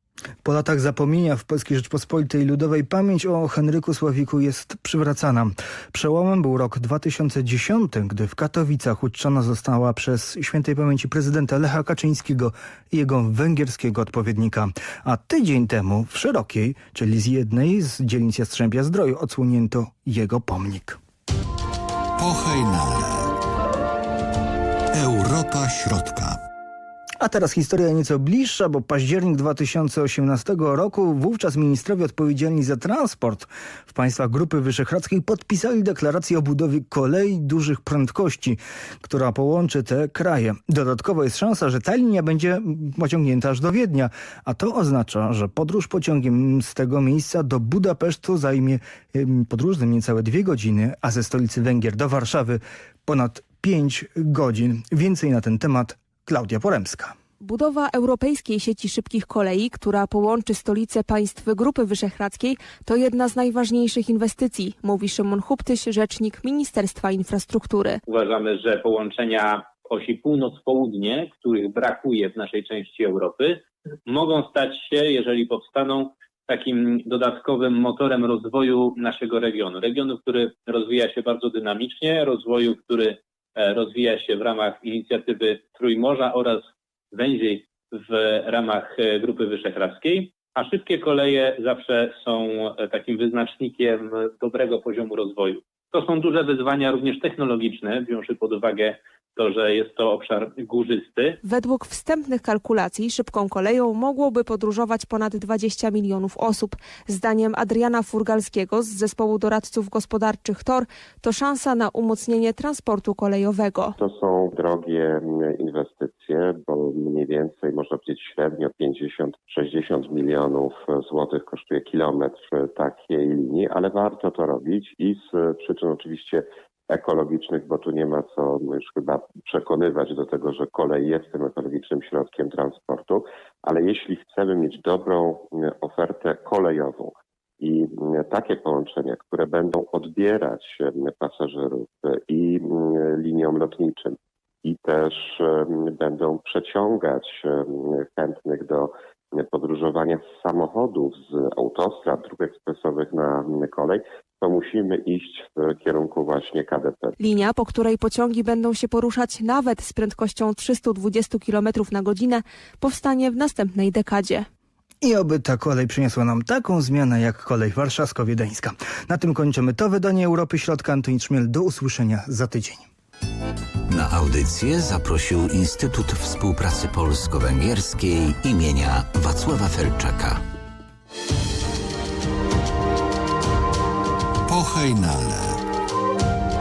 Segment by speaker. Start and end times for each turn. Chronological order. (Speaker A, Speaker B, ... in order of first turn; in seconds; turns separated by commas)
Speaker A: 0.4-21.0, Speaker B: 22.2-23.3, Speaker B: 24.9-26.4, Speaker A: 27.2-57.1, Speaker C: 57.4-68.0, Speaker D: 68.1-101.4, Speaker C: 101.4-114.0, Speaker E: 114.0-157.2, Speaker C: 157.2-164.5, Speaker A: 165.0-172.9, Speaker F: 174.0-180.4, Speaker B: 184.5-185.6